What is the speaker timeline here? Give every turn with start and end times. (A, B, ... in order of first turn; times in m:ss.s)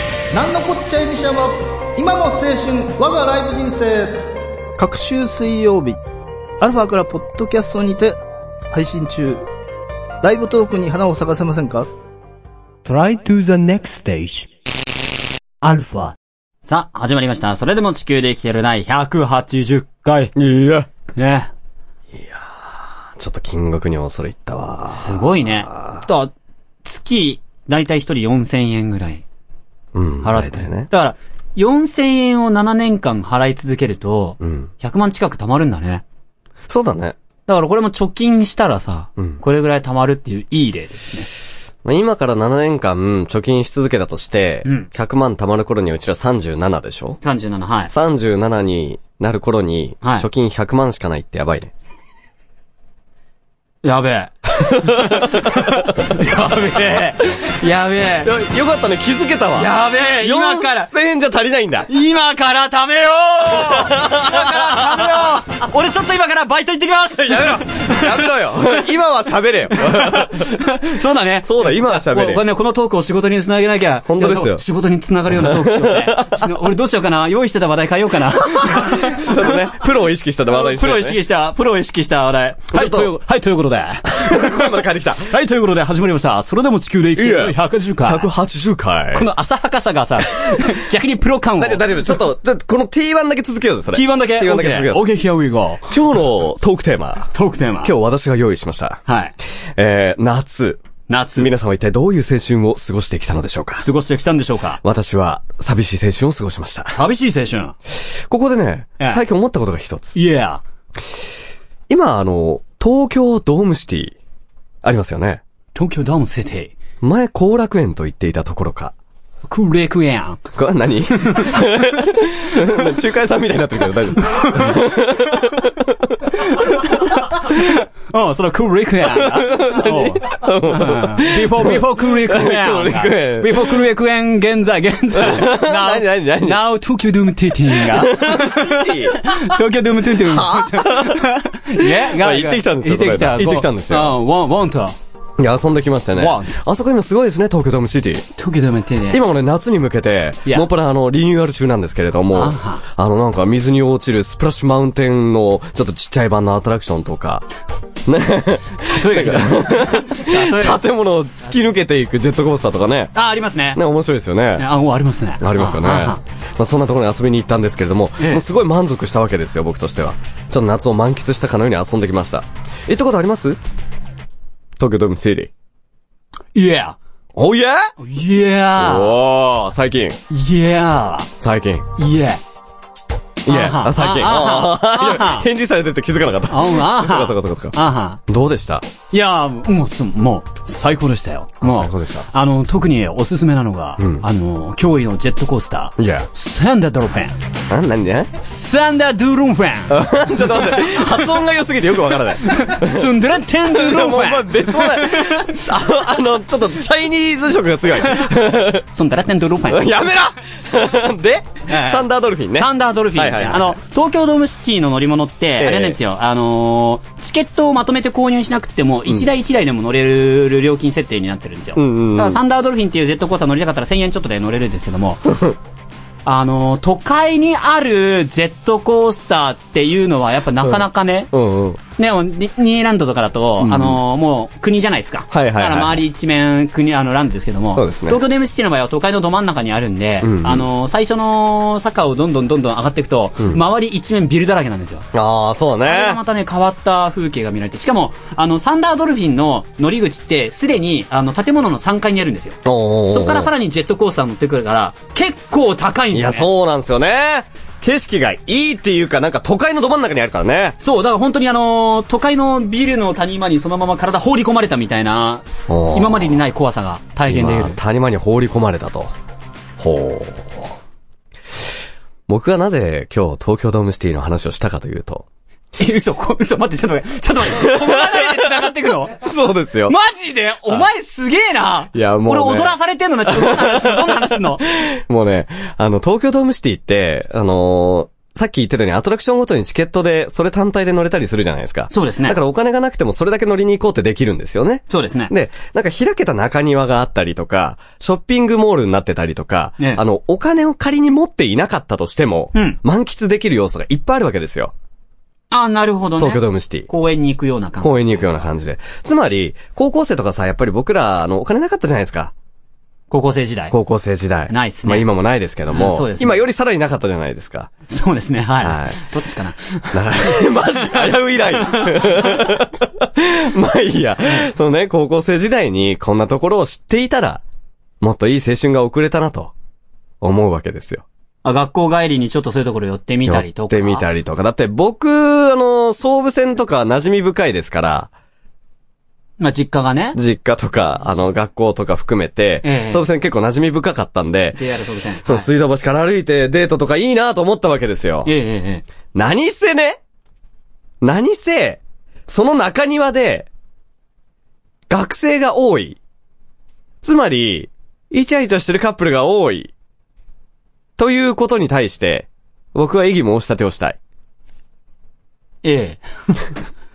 0:00.3-0:04.2 A
0:04.8-0:06.0 A
0:06.6-0:08.2 A
0:08.7-0:09.4 A
0:10.2-0:11.9 A
0:12.8-0:14.5 B
0:15.6-0:16.1 B
0:16.7-0:20.3 C
0:20.3-0:20.9 D
0:21.2-0:21.5 C
0:22.1-0:26.0 D
0:24.9-0:26.3 C
0:26.8-0:29.2 C
0:29.9-0:30.9 D
0:30.2-0:36.0 C
0:34.4-0:34.7 D
0:36.7-0:37.2 D
0:37.5-0:41.3 C
0:41.8-0:47.2 D
0:47.2-0:47.9 C
0:47.9-0:51.7 D
0:50.0-0:50.3 C
0:53.8-0:58.3 C
0:54.6-0:57.0 D
0:58.2-1:01.9 D
0:59.5-1:00.9 C
1:01.9-1:08.3 C
1:03.5-1:05.4 D
1:07.1-1:10.5 D
1:09.7-1:19.6 C
1:11.4-1:12.4 D
1:14.0-1:14.6 D
1:15.3-1:16.5 D
1:18.5-1:21.2 D
1:20.5-1:28.3 C
1:22.7-1:23.2 D
1:24.1-1:25.3 D
1:27.2-1:29.3 D
1:29.1-1:32.2 C
1:31.6-1:35.0 D
1:33.9-1:36.0 C
1:35.9-1:37.3 D
1:37.3-1:37.9 C
1:37.8-1:39.0 D
1:39.1-1:39.3 C
1:39.8-1:40.8 D
1:41.1-1:41.5 C
1:41.4-1:43.8 D
1:43.8-1:44.8 C
1:44.8-1:47.0 D
1:46.9-1:47.7 C
1:48.3-1:50.2 D
1:50.1-1:50.6 C
1:51.9-1:54.2 D
1:54.8-1:55.4 D
1:55.7-1:56.7 C
1:57.0-1:58.9 D
1:59.5-2:00.4 C
2:00.6-2:06.1 D
2:01.1-2:01.7 C
2:02.5-2:02.9 C
2:04.2-2:04.8 C
2:06.5-2:25.0 C
2:09.0-2:13.8 D
2:15.1-2:16.6 D
2:17.7-2:19.4 D
2:20.2-2:21.2 D
2:21.8-2:24.2 D
2:25.4-2:28.2 D
2:26.2-2:26.6 C
2:28.4-2:29.2 C
2:29.1-2:37.4 D
2:32.3-2:32.8 C
2:38.0-2:43.1 D
2:38.8-2:40.8 C
2:43.1-2:43.8 C
2:43.7-2:44.6 D
2:44.6-2:46.2 C
2:45.4-2:53.6 D
2:54.8-2:55.5 D
2:56.5-2:57.0 C
2:57.3-2:57.9 D
2:58.0-2:59.2 C
2:58.8-3:00.2 D
3:00.3-3:01.3 C
3:01.4-3:01.8 D
3:02.0-3:02.4 C
3:03.4-3:07.8 D
3:03.5-3:05.5 C
3:06.5-3:08.2 C
3:08.3-3:08.8 D
3:09.1-3:17.3 C
3:11.6-3:12.2 D
3:14.0-3:14.2 D
3:16.0-3:16.3 D
3:17.7-3:18.3 D
3:18.4-3:20.0 C
3:19.9-3:23.1 D
3:20.7-3:21.0 C
3:22.4-3:25.6 C
3:23.6-3:28.8 D
3:28.9-3:30.0 C
3:29.7-3:33.8 D
3:31.7-3:45.3 C
3:35.6-3:36.0 D
3:41.8-3:42.4 D
3:45.3-3:45.6 D
3:46.2-3:51.3 C
3:50.6-3:51.8 D
3:52.0-4:05.1 C
3:53.6-3:54.0 D
3:55.3-3:56.0 D
3:57.7-3:58.2 D
4:00.2-4:00.7 D
4:05.1-4:06.2 D
4:05.8-4:12.6 C
4:12.6-4:13.5 D
4:13.1-4:16.5 C
4:16.1-4:20.8 D
4:20.8-4:27.8 C
4:25.7-4:26.4 D
4:27.3-4:29.1 D
4:29.8-4:30.7 D
4:32.3-4:35.2 D
4:35.8-4:39.2 C
4:37.4-4:39.9 D
4:39.9-4:44.6 C
4:41.9-4:42.7 D
4:43.3-5:04.7 D
4:51.9-4:52.4 C
4:54.9-4:55.3 C
5:02.5-5:02.8 C
5:05.5-5:08.5 C
5:06.2-5:06.9 D
5:07.8-5:12.3 D
5:13.1-5:13.7 C
5:13.7-5:17.7 D
5:14.5-5:15.1 C
5:15.7-5:16.4 C
5:17.9-5:22.5 C
5:18.6-5:19.0 D
5:19.9-5:27.4 D
5:28.0-5:29.5 D
5:30.2-5:31.0 D
5:31.4-5:34.1 C
5:33.2-5:38.1 D
5:39.4-5:40.2 C
5:40.1-5:44.6 D
5:42.6-5:43.0 C
5:44.5-5:45.5 C
5:45.2-5:48.3 D
5:48.2-5:48.8 C
5:49.1-5:50.0 D
5:51.0-5:53.5 D
5:54.9-5:56.0 D
5:57.0-5:59.7 D
6:01.0-6:04.0 D
6:05.6-6:06.0 C